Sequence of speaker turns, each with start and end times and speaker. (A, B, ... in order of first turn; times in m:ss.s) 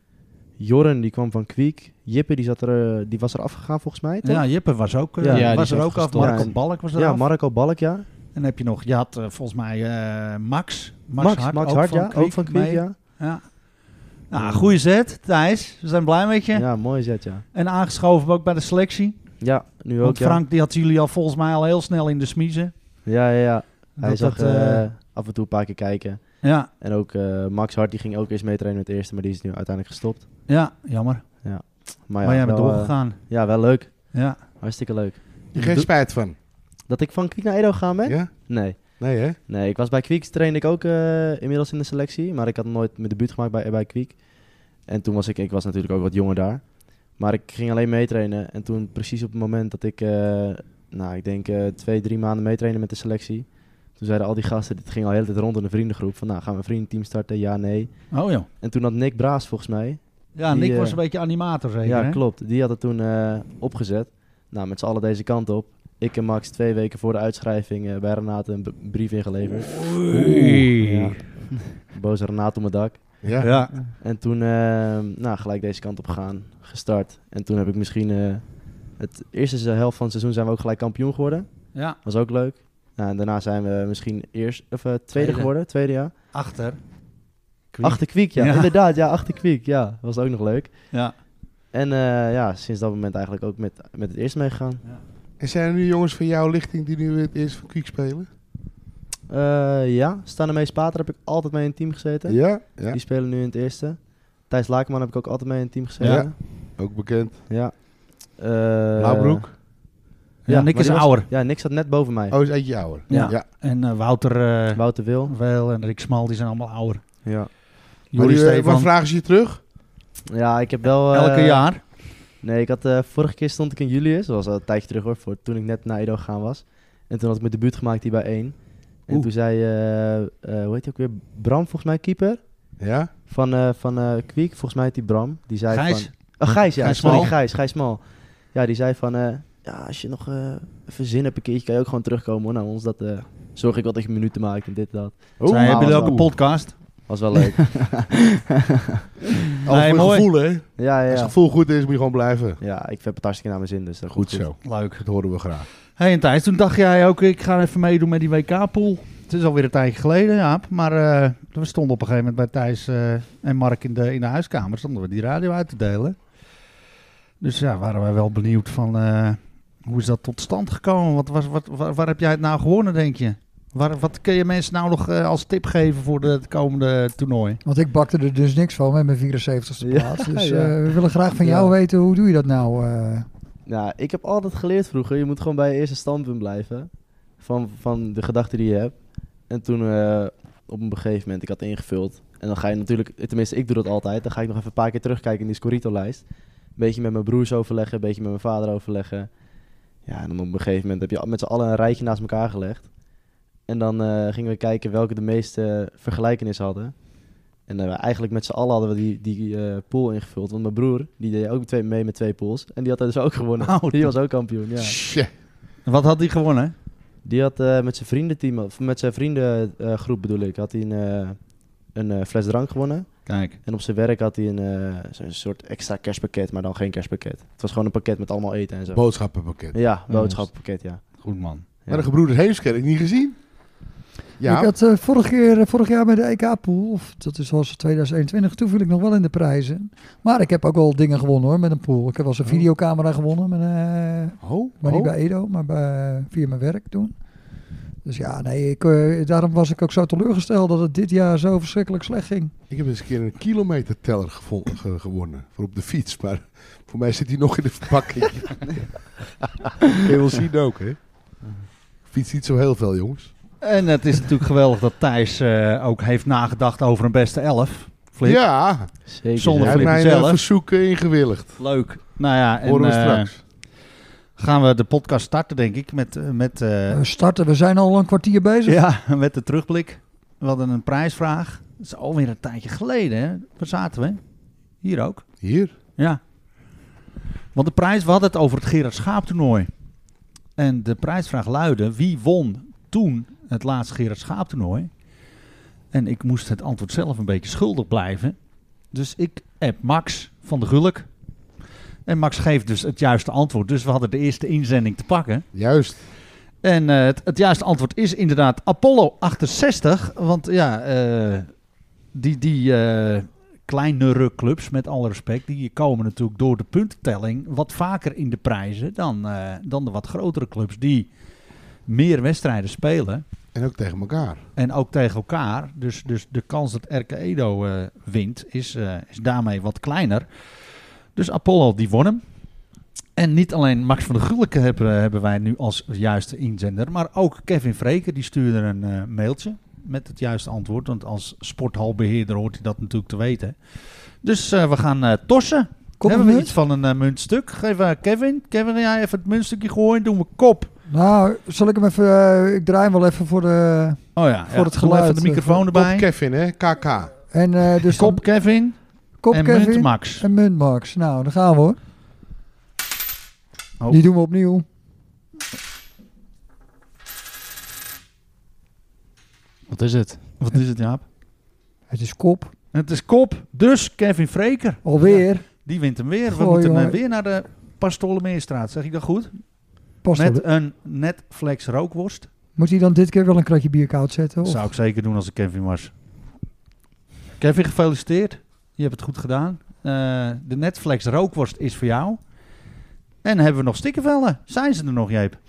0:00.6-0:04.5 A
0:04.2-0:07.2 B
0:05.2-0:08.1 A
0:05.3-0:06.5 C
0:08.3-0:16.7 B
0:11.2-0:13.0 A
0:14.4-0:14.8 A
0:16.5-0:17.4 A
0:17.5-0:22.7 B
0:19.4-0:20.4 A
0:23.1-0:30.2 A
0:24.0-0:24.9 B
0:26.4-0:26.7 B
0:30.5-0:33.3 B
0:31.4-0:35.3 A
0:34.1-0:34.4 B
0:35.5-0:35.9 B
0:35.6-0:36.4 D
0:36.8-1:01.0 A
0:38.0-0:39.4 D
0:58.1-0:58.5 B
1:00.4-1:02.2 B
1:01.8-1:26.1 A
1:09.7-1:11.2 B
1:11.5-1:11.8 C
1:13.2-1:13.6 D
1:13.4-1:13.7 B
1:21.7-1:22.0 B
1:25.2-1:25.5 B
1:26.3-1:26.8 B
1:27.7-1:28.7 B
1:27.8-1:31.2 A
1:31.7-1:34.8 A
1:35.4-1:38.3 D
1:39.3-1:46.8 A
1:42.3-1:43.0 D
1:46.0-1:46.3 B
1:46.0-1:47.5 D
1:47.5-1:49.8 A
1:49.0-1:49.6 D
1:50.5-1:51.3 B
1:50.5-1:53.4 A
1:52.3-1:53.5 D
1:53.1-1:57.2 B
1:54.7-1:55.3 A
1:57.2-1:57.5 A
1:58.1-1:58.9 B
1:58.1-1:59.6 D
2:00.3-2:01.7 A
2:01.1-2:01.8 B
2:02.4-2:12.8 A
2:12.8-2:13.1 D
2:13.3-2:28.1 A
2:15.7-2:17.4 B
2:17.0-2:17.3 D
2:25.4-2:26.3 D
2:25.5-2:27.1 B
2:29.6-2:32.6 D
2:29.7-2:30.3 B
2:30.8-2:31.3 A
2:32.6-2:34.5 A
2:34.1-2:35.7 D
2:34.6-2:35.0 B
2:36.0-2:46.2 B
2:47.4-2:57.6 B
2:57.6-3:03.3 E
2:59.8-3:01.7 A
3:03.7-3:19.3 A
3:20.0-3:22.9 A
3:23.6-3:35.0 A
3:33.6-3:34.2 B
3:34.8-3:35.3 D
3:35.8-3:36.7 B
3:37.2-3:51.2 A
3:43.3-3:43.6 B
3:48.9-3:49.8 D
3:51.2-3:51.7 B
3:51.9-3:53.5 D
3:54.4-3:54.7 D
3:54.4-4:07.2 E
4:04.4-4:05.1 D
4:08.0-4:12.5 E
4:12.7-4:19.1 D
4:19.9-4:21.0 D
4:22.1-4:23.3 D
4:23.6-4:30.4 B
4:28.2-4:31.6 D
4:29.1-4:30.0 A
4:31.6-4:33.4 B
4:32.6-4:33.4 D
4:34.4-4:37.0 B
4:36.9-4:38.8 E
4:38.7-4:44.2 B
4:44.8-4:45.4 B
4:45.4-4:45.7 D
4:47.5-4:49.7 B
4:50.6-4:54.9 B
4:55.9-4:58.4 B
4:58.9-5:01.1 B
5:02.1-5:05.4 B
5:05.5-5:06.0 D
5:06.6-5:11.5 B
5:12.1-5:21.1 B
5:21.9-5:23.2 B
5:23.5-5:24.4 D
5:24.6-5:30.3 B
5:31.2-5:32.2 B
5:33.2-5:50.7 B
5:46.0-5:46.5 E
5:50.9-5:55.6 E
5:54.2-5:56.1 B
5:55.7-5:57.2 D
5:57.3-5:58.3 E
5:57.9-6:00.2 B
5:59.2-6:01.8 E
6:03.9-6:04.6 E
6:09.7-6:10.2 C
6:10.4-6:11.0 B
6:11.9-6:12.5 E
6:12.7-6:22.3 B
6:14.8-6:15.5 E
6:16.3-6:17.0 E
6:20.0-6:20.4 E
6:22.6-6:24.7 E
6:24.4-6:25.9 B
6:27.4-6:32.2 B
6:33.2-6:35.4 B